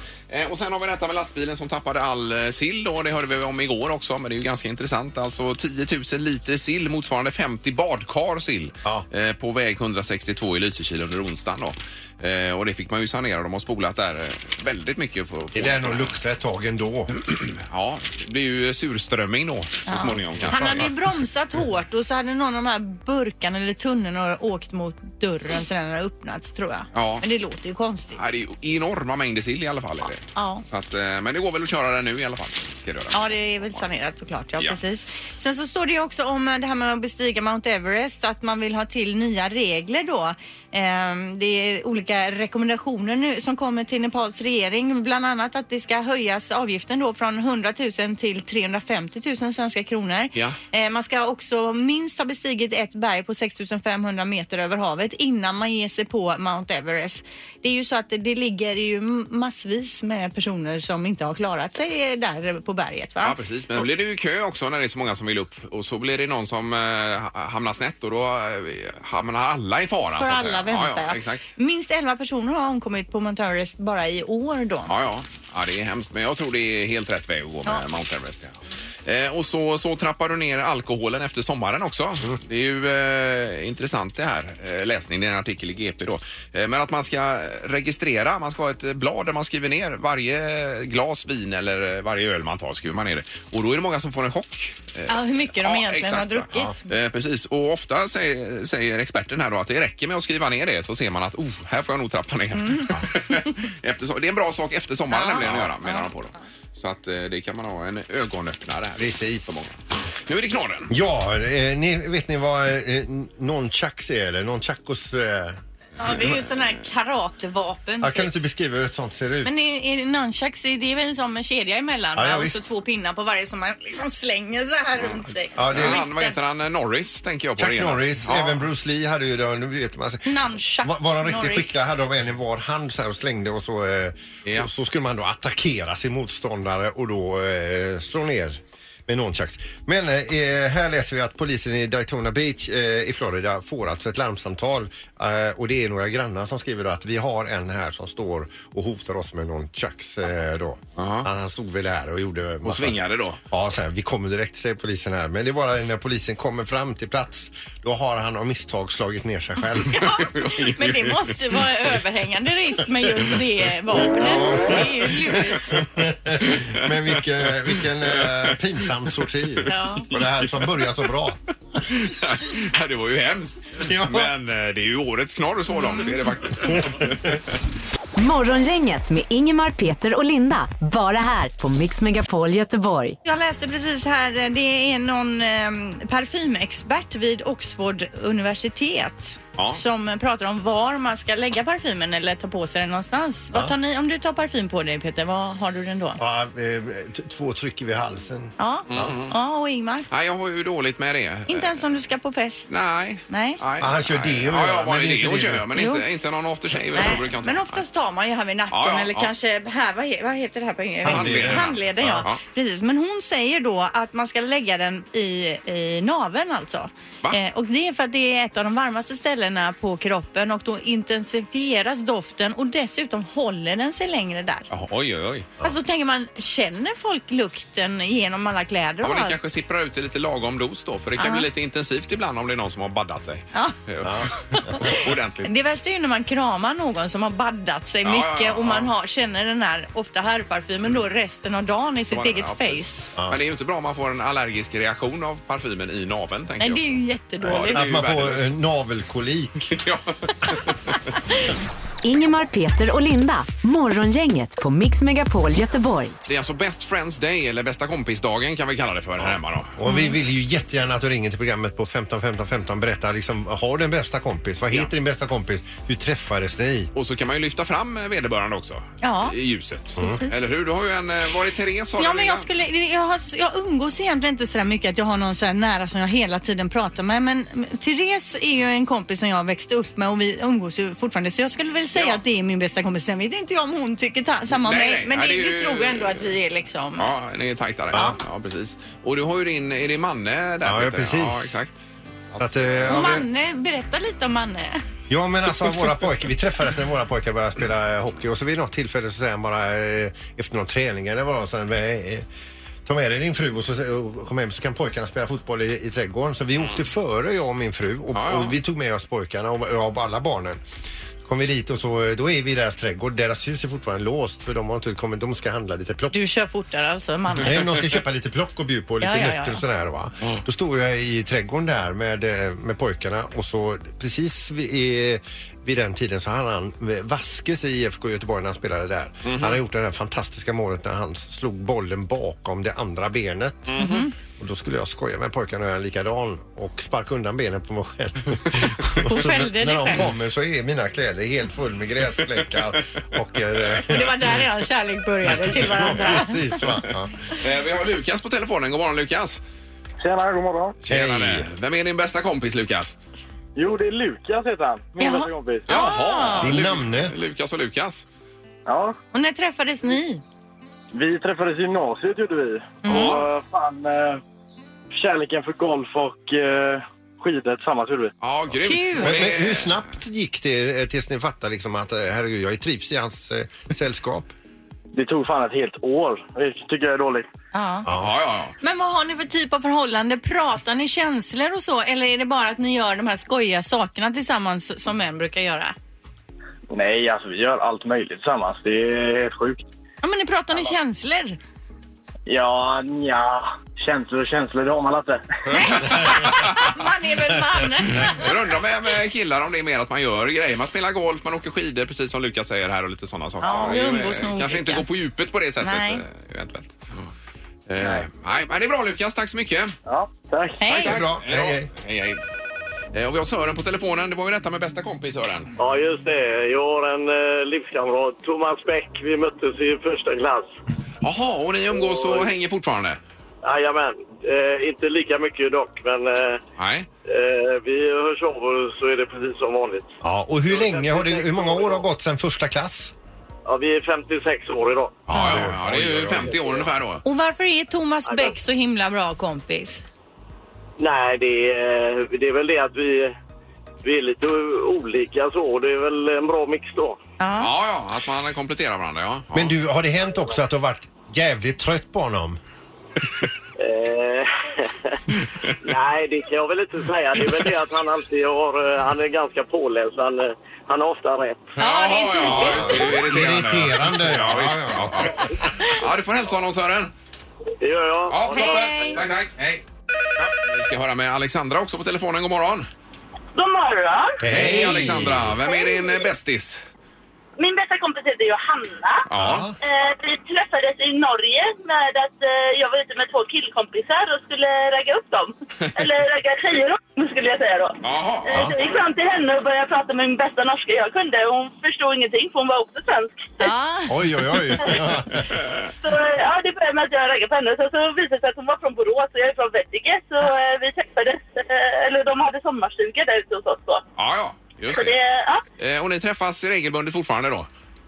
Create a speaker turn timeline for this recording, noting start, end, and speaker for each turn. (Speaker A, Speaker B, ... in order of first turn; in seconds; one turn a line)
Speaker A: 0.3-16.1
Speaker B: 15.5-17.1
Speaker A: 17.2-20.9
Speaker C: 19.9-28.2
Speaker B: 20.4-20.9
Speaker A: 26.9-27.2
Speaker A: 28.1-33.8
Speaker C: 30.3-30.6
Speaker C: 33.1-63.8
Speaker A: 63.2-71.4
Speaker C: 70.2-74.9
Speaker A: 74.9-109.7
Speaker C: 95.1-96.8
Speaker C: 102.6-102.8
Speaker C: 105.1-106.1
Speaker B: 109.0-109.5
Speaker A: 110.2-110.9
Speaker B: 110.9-115.6
Speaker C: 116.0-118.3
Speaker B: 118.0-119.5
Speaker C: 119.4-126.3
Speaker B: 122.2-122.6
Speaker A: 125.0-128.6
Speaker B: 125.6-126.0
Speaker B: 127.6-153.0
Speaker C: 130.2-131.8
Speaker A: 151.0-151.3
Speaker A: 152.6-153.4
Speaker B: 153.5-160.0
Speaker C: 159.9-165.8
Speaker A: 160.0-161.3
Speaker B: 164.1-164.8
Speaker B: 165.5-171.4
Speaker A: 166.4-168.6
Speaker C: 169.7-170.1
Speaker A: 170.1-171.1
Speaker A: 171.8-177.4
Speaker B: 173.9-174.3
Speaker B: 176.7-177.1
Speaker D: 178.2-183.2
Speaker C: 183.2-196.2
Speaker B: 196.2-199.2
Speaker C: 198.6-200.1
Speaker A: 198.9-199.3
Speaker A: 200.1-201.8
Speaker C: 201.5-202.7
Speaker A: 202.7-207.8
Speaker C: 203.3-203.6
Speaker B: 203.8-205.7
Speaker C: 205.7-206.0
Speaker C: 206.9-224.7
Speaker A: 208.7-209.3
Speaker B: 211.0-212.2
Speaker A: 211.1-212.4
Speaker A: 224.7-225.5
Speaker C: 225.6-229.4
Speaker A: 229.0-235.5
Speaker C: 231.2-231.4
Speaker B: 234.0-234.9
Speaker C: 234.5-234.9
Speaker C: 235.4-243.1
Speaker A: 238.0-238.9
Speaker A: 242.1-248.5
Speaker C: 246.6-247.9
Speaker B: 247.4-249.8
Speaker A: 249.7-251.1
Speaker D: 252.0-256.2
Speaker A: 256.3-259.7
Speaker B: 259.2-266.9
Speaker C: 259.9-260.1
Speaker A: 266.9-272.4
Speaker C: 269.0-269.4
Speaker C: 270.0-270.3
Speaker C: 272.0-287.1
Speaker A: 281.9-282.2
Speaker A: 284.5-286.4
Speaker A: 287.0-291.8
Speaker B: 287.9-288.2
Speaker B: 290.6-291.6
Speaker A: 292.3-293.2
Speaker B: 292.4-293.2
Speaker C: 292.9-294.8
Speaker B: 295.1-302.2
Speaker B: 302.8-310.6
Speaker A: 308.1-308.6
Speaker B: 311.2-316.2
Speaker C: 316.1-317.6
Speaker B: 317.4-333.8
Speaker C: 319.0-319.6
Speaker A: 329.2-329.6
Speaker A: 333.7-334.1
Speaker C: 333.8-334.1
Speaker B: 334.4-344.3
Speaker C: 339.1-340.1
Speaker C: 343.8-346.6
Speaker B: 345.3-347.1
Speaker A: 347.4-349.4
Speaker E: 350.0-350.8
Speaker A: 350.9-352.9
Speaker B: 350.9-351.5
Speaker E: 353.6-355.6
Speaker C: 355.0-356.6
Speaker A: 355.7-358.1
Speaker B: 356.4-357.2
Speaker E: 358.7-359.0
Speaker C: 359.1-360.2
Speaker E: 360.9-364.2
Speaker C: 362.8-363.2
Speaker A: 362.9-363.2
Speaker E: 364.9-368.1
Speaker A: 368.2-369.8
Speaker C: 368.6-369.2
Speaker B: 369.0-374.3
Speaker E: 374.9-377.3
Speaker C: 377.5-377.9
Speaker B: 377.9-378.1
Speaker A: 377.9-378.6
Speaker C: 378.6-385.7
Speaker E: 386.7-389.7
Speaker C: 390.0-391.4
Speaker E: 392.2-395.2
Speaker C: 395.5-398.3
Speaker A: 395.5-396.7
Speaker A: 398.0-407.1
Speaker C: 403.4-404.9
Speaker C: 405.6-406.0
Speaker A: 407.7-409.7
Speaker E: 409.9-410.6
Speaker C: 410.6-411.0
Speaker A: 410.7-412.2
Speaker B: 410.8-411.7
Speaker A: 412.9-415.5
Speaker F: 415.6-420.5
Speaker A: 421.0-423.0
Speaker F: 421.8-422.3
Speaker F: 423.4-426.4
Speaker A: 426.6-426.9
Speaker F: 427.1-429.9
Speaker B: 430.0-432.9
Speaker F: 430.5-431.8
Speaker F: 433.4-435.1
Speaker B: 435.1-436.4
Speaker A: 435.1-437.0
Speaker F: 436.3-436.7
Speaker C: 437.1-439.8
Speaker F: 438.1-438.4
Speaker F: 440.8-443.1
Speaker F: 443.8-447.0
Speaker C: 447.2-447.5
Speaker A: 447.4-449.5
Speaker B: 449.3-452.4
Speaker F: 453.6-455.0
Speaker F: 455.6-461.5
Speaker A: 461.6-466.9
Speaker C: 461.6-463.0
Speaker B: 462.2-465.3
Speaker F: 467.6-469.0
Speaker A: 468.1-469.6
Speaker C: 468.3-469.0
Speaker A: 470.2-472.7
Speaker G: 473.3-474.2
Speaker B: 474.2-475.4
Speaker A: 474.3-476.6
Speaker G: 475.5-475.9
Speaker G: 477.4-479.1
Speaker A: 479.1-479.5
Speaker B: 479.1-479.6
Speaker G: 479.6-493.5
Speaker A: 487.8-488.5
Speaker C: 493.4-494.0
Speaker B: 493.9-495.3
Speaker A: 495.3-495.7
Speaker G: 495.8-503.8
Speaker A: 504.0-505.0
Speaker G: 504.7-505.4
Speaker A: 505.6-507.5